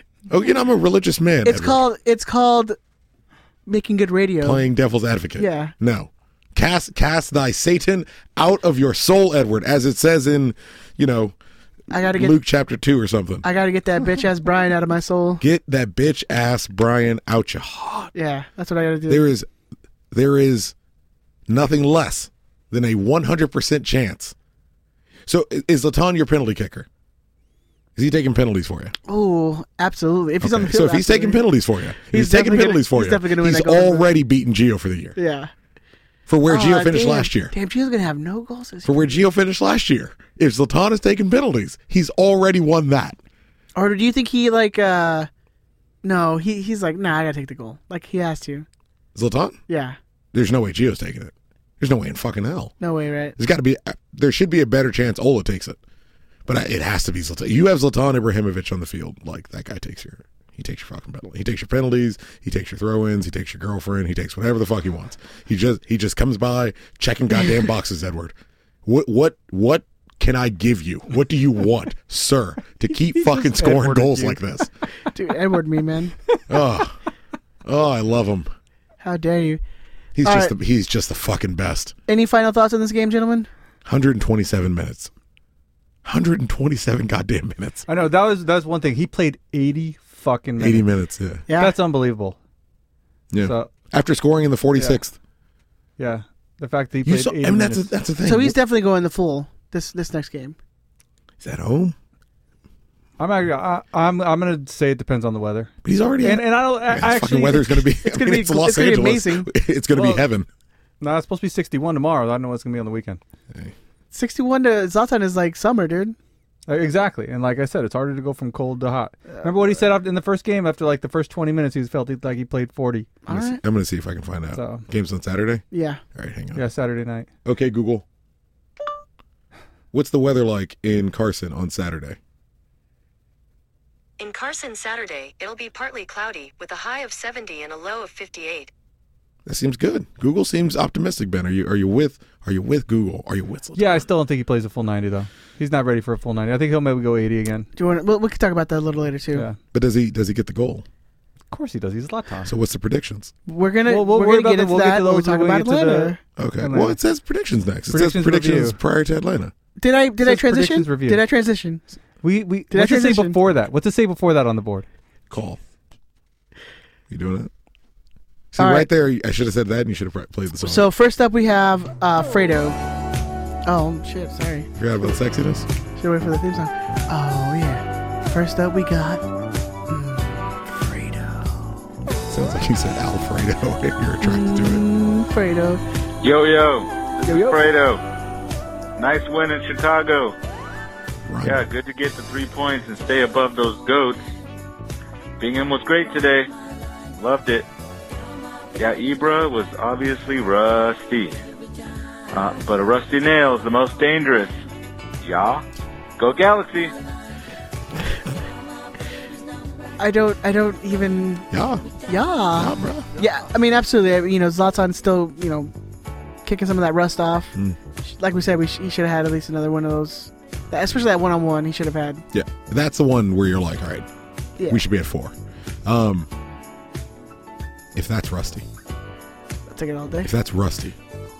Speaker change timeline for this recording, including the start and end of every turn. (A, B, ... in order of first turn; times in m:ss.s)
0:00.3-0:01.8 A
0:01.4-0:02.8 B
0:03.7-0:04.6 B
0:04.4-0:11.3 A
0:05.4-0:05.7 B
0:11.9-0:12.4 B
0:12.0-0:13.4 A
0:13.4-0:15.4 B
0:15.4-0:18.1 A
0:18.1-0:19.3 B
0:19.1-0:19.5 A
0:20.1-0:20.7 A
0:21.5-0:24.3 A
0:25.3-0:26.9 A
0:28.0-0:28.9 A
0:29.1-0:31.4 B
0:30.4-0:35.2 A
0:32.1-0:34.1 B
0:35.2-0:35.5 B
0:36.3-0:37.5 A
0:36.4-0:39.2 B
0:38.8-0:43.2 A
0:43.7-0:45.3 B
0:46.0-0:48.6 B
0:49.1-0:49.6 A
0:49.7-0:50.0 B
0:50.3-0:52.7 A
0:52.8-0:53.4 B
0:53.4-0:55.8 A
0:56.4-1:08.3 A
1:08.8-1:14.7 A
1:13.1-1:14.4 C
1:15.1-1:16.1 B
1:16.5-1:17.0 A
1:17.6-1:18.5 A
1:19.0-1:19.6 B
1:20.2-1:22.0 A
1:20.2-1:20.5 B
1:22.1-1:23.5 B
1:23.8-1:25.1 A
1:26.0-1:27.8 A
1:27.9-1:30.9 C
1:30.6-1:31.4 A
1:31.5-1:31.7 B
1:31.5-1:32.4 C
1:33.3-1:35.2 A
1:33.4-1:33.7 C
1:36.0-1:37.9 C
1:37.0-1:38.6 A
1:38.2-1:40.6 B
1:41.4-1:41.9 A
1:43.2-1:47.8 C
1:45.8-1:50.5 A
1:48.0-1:49.5 B
1:49.9-1:50.2 C
1:51.0-1:53.2 C
1:54.1-1:56.2 B
1:56.7-2:03.1 C
2:03.3-2:03.6 B
2:03.3-2:06.6 A
2:04.5-2:04.8 C
2:05.7-2:06.0 B
2:06.5-2:07.3 C
2:07.4-2:08.0 A
2:09.9-2:12.2 A
2:14.2-2:18.7 D
2:19.4-2:24.0 A
2:23.8-2:27.7 C
2:27.8-2:29.4 B
2:29.7-2:30.8 A
2:31.5-2:32.5 C
2:32.4-2:33.3 A
2:33.4-2:36.2 B
2:33.9-2:37.0 C
2:36.4-2:39.5 A
2:37.9-2:38.8 C
2:39.8-2:41.8 B
2:40.2-2:41.2 C
2:42.2-2:44.8 C
2:42.7-2:43.4 B
2:45.3-2:45.6 A
2:47.1-2:47.5 A
2:48.5-2:50.9 A
2:48.6-2:48.9 B
2:50.6-2:52.8 B
2:53.6-2:54.7 B
2:54.8-2:55.7 A
2:56.0-2:59.2 B
2:59.9-3:01.7 B
3:02.3-3:04.8 A
3:04.2-3:05.8 B
3:06.2-3:08.0 E
3:07.2-3:07.6 B
3:09.0-3:10.3 E
3:11.2-3:11.6 A
3:11.4-3:14.2 E
3:15.4-3:16.5 E
3:17.2-3:17.7 E
3:18.8-3:21.4 E
3:22.3-3:24.6 E
3:25.2-3:25.6 E
3:26.2-3:26.9 E
3:30.0-3:31.5 B
3:31.5-3:31.8 A
3:32.1-3:35.7 B
3:32.5-3:33.1 A
3:36.4-3:42.2 B
3:42.3-3:44.1 A
3:44.7-3:46.3 A
3:47.9-3:48.6 A
3:49.7-3:50.3 B
3:50.2-3:51.0 A